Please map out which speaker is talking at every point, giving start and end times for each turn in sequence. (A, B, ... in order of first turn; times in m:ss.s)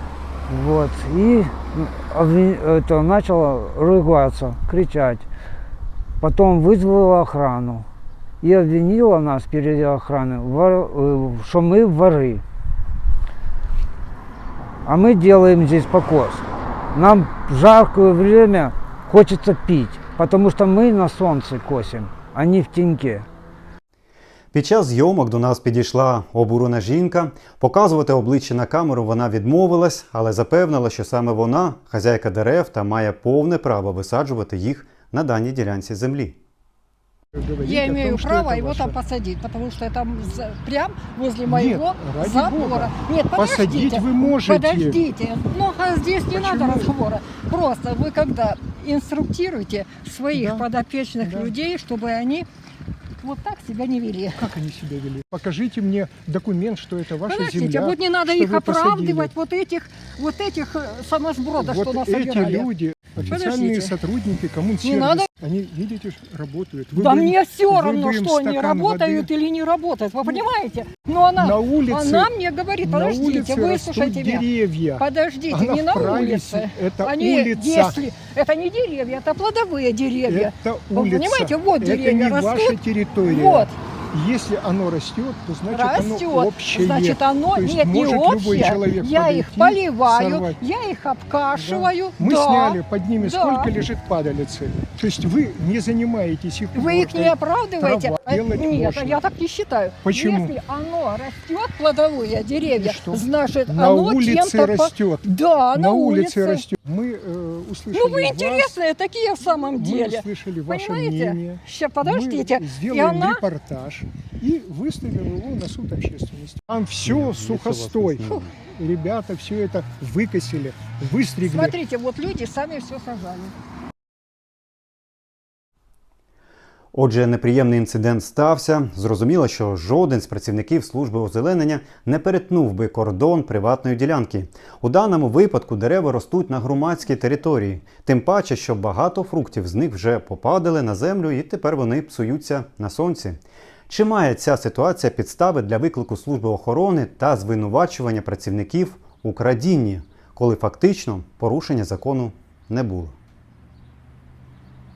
0:00.5-0:05.2 A
0:06.2-0:07.9 A
0:08.4-0:12.4 A
0:14.8-0:23.3 A
0:24.5-0:36.4 B
0:37.3-0:39.0 C
0:37.6-0:52.4 D
0:41.5-0:45.0 C
0:46.3-0:47.0 C
0:50.3-0:50.7 C
0:51.2-0:51.5 C
0:53.2-0:54.4 D
0:54.4-0:59.3 C
0:57.2-1:02.7 D
1:01.6-1:09.3 C
1:03.2-1:04.0 D
1:04.8-1:05.3 D
1:07.0-1:23.7 D
1:11.4-1:18.0 C
1:20.2-1:30.6 C
1:25.7-1:33.7 D
1:31.6-1:39.2 C
1:36.7-1:46.6 D
1:40.0-1:40.6 C
1:42.7-1:48.8 C
1:47.9-1:53.4 D
1:49.4-2:01.8 C
1:57.1-1:58.3 B
2:01.4-2:03.5 D
2:06.9-2:33.2 B